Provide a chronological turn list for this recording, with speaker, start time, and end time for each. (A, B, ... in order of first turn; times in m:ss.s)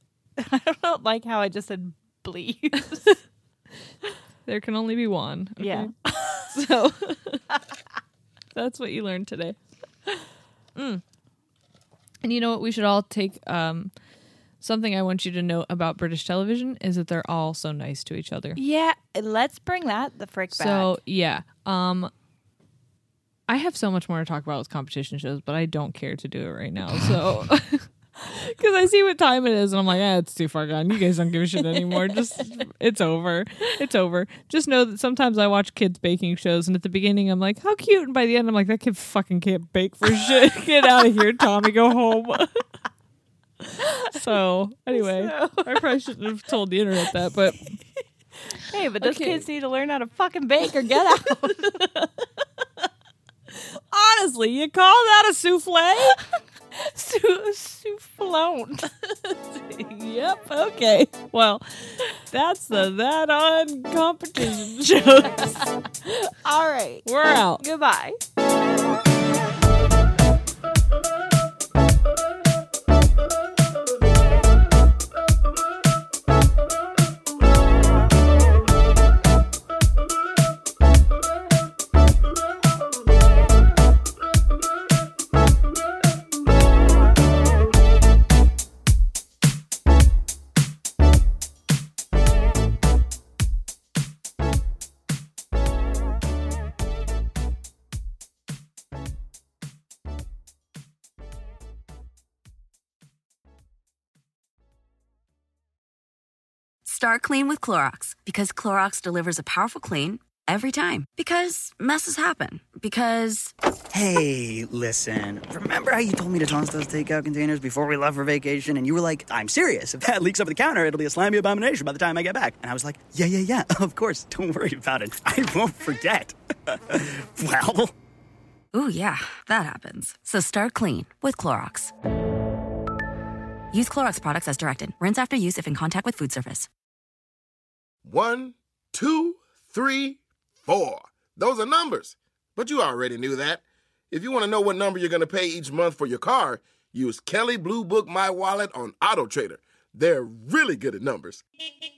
0:00.4-0:03.2 A
0:04.5-0:07.5 B
0:05.6-0:06.5 A
0:08.5-0:09.6 B
0:10.8-0:11.0 B
0:12.2-0:13.9 B
0:14.6-0:18.6 B
0:18.6-0:21.0 A
0:20.5-0:22.1 B
0:23.5-0:42.6 B
0:43.6-0:47.8 B
0:44.9-0:45.8 A
0:48.5-0:51.9 A
0:49.0-0:49.5 B
0:51.6-0:52.3 B
0:53.5-0:56.2 B
0:56.8-0:58.9 A
0:58.9-1:05.7 B
1:05.2-1:05.7 A
1:06.3-1:08.2 A
1:07.0-1:07.6 B
1:46.8-1:53.5 C
1:53.9-2:07.9 D
2:08.7-2:11.9 C
2:13.7-2:16.7 C
2:18.0-2:31.4 E